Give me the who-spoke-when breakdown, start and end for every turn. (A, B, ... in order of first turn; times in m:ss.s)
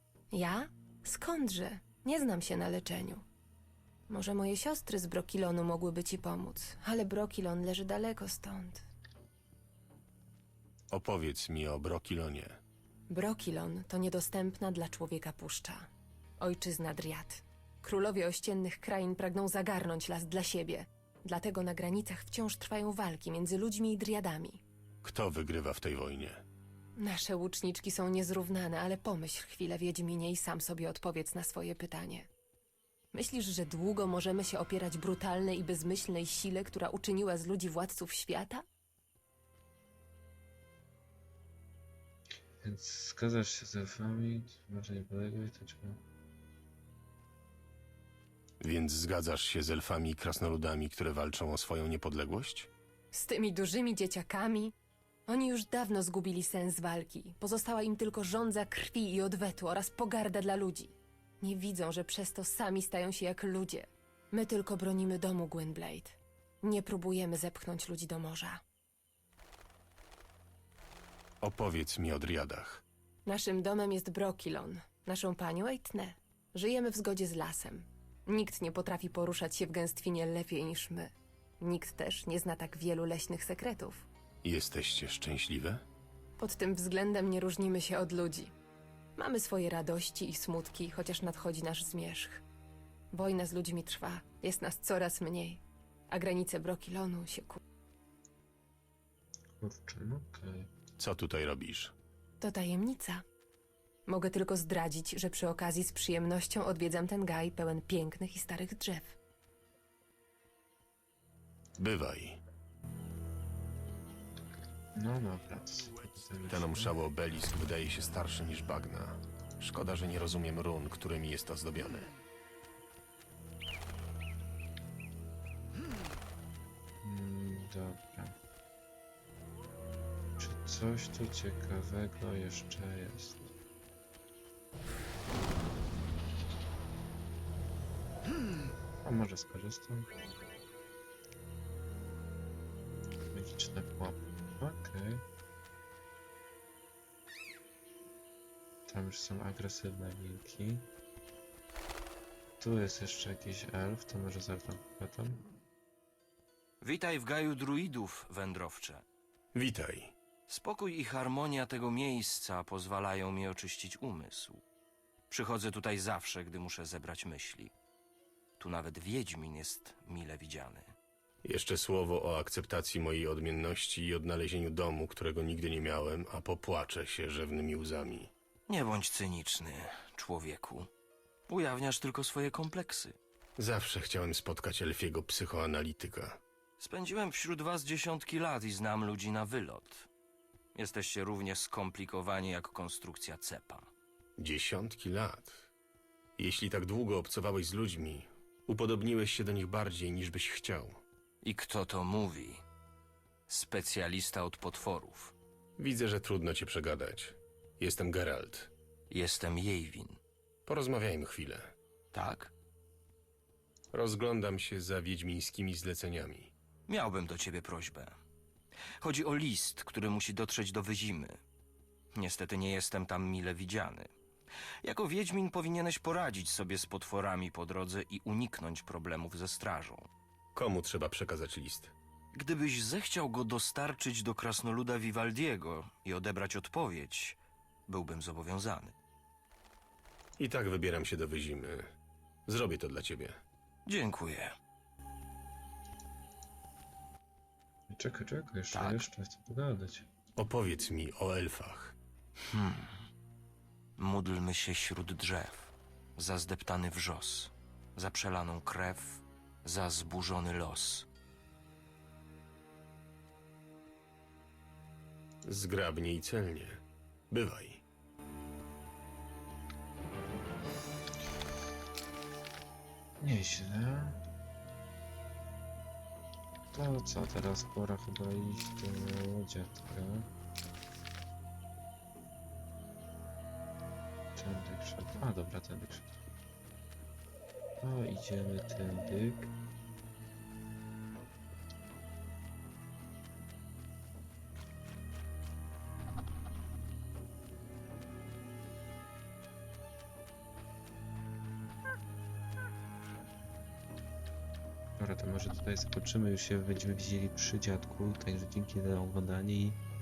0:00.3-0:03.2 A
0:04.1-0:08.8 A
0:10.9-0:12.6 B
0:13.1-0:15.9 A
0:16.4-0:24.6 A
0:25.0-0:26.4 B
0:27.0-0:32.3 A
0:33.1-0:38.6 A
0:42.6-0:46.0 C
0:48.6-0:52.7 B
0:53.1-0:54.7 A
0:55.3-1:08.6 A
1:11.4-1:12.8 B
1:13.3-1:24.1 A
1:24.4-1:25.8 B
1:26.4-1:28.5 A
1:29.2-1:32.4 A
1:33.1-1:37.6 A
1:39.6-1:40.7 C
1:41.0-1:41.9 B
1:42.4-1:43.2 A
1:44.1-1:49.2 A
1:51.8-1:52.4 B
1:55.0-1:57.0 C
1:56.5-2:02.1 B
2:07.0-2:08.4 C
2:10.4-2:13.5 C
2:19.0-2:20.1 C
2:23.3-2:25.2 C
2:28.9-2:30.9 C
2:32.6-2:35.4 C
2:36.8-2:39.0 D
2:39.6-2:40.1 B
2:40.5-2:44.6 D
2:45.3-2:47.7 D
2:48.6-2:50.9 D
2:51.4-2:58.3 B
2:58.7-3:00.9 D
3:01.5-3:03.2 D
3:03.6-3:06.4 B
3:06.8-3:10.1 D
3:10.8-3:13.9 D
3:14.4-3:15.7 B
3:16.4-3:21.0 B
3:21.4-3:22.6 D
3:23.5-3:25.3 D
3:25.8-3:28.7 B
3:29.1-3:30.2 D
3:30.7-3:31.8 B
3:32.1-3:32.5 D
3:33.9-3:36.5 B
3:36.9-3:38.2 D
3:39.0-3:41.4 D
3:42.1-3:44.1 D
3:44.8-3:50.1 D
3:50.6-3:51.9 B
3:52.3-3:58.9 D
4:00.4-4:01.9 B
4:02.5-4:03.4 B
4:03.9-4:04.5 D
4:07.9-4:10.1 C
4:08.7-4:09.1 D
4:10.4-4:12.0 B
4:12.5-4:13.0 D
4:14.0-4:21.1 D
4:25.4-4:27.8 B
4:33.2-4:34.2 C
4:36.7-4:40.3 C
4:44.4-4:46.1 C
4:47.8-4:49.5 C
5:05.0-5:09.8 C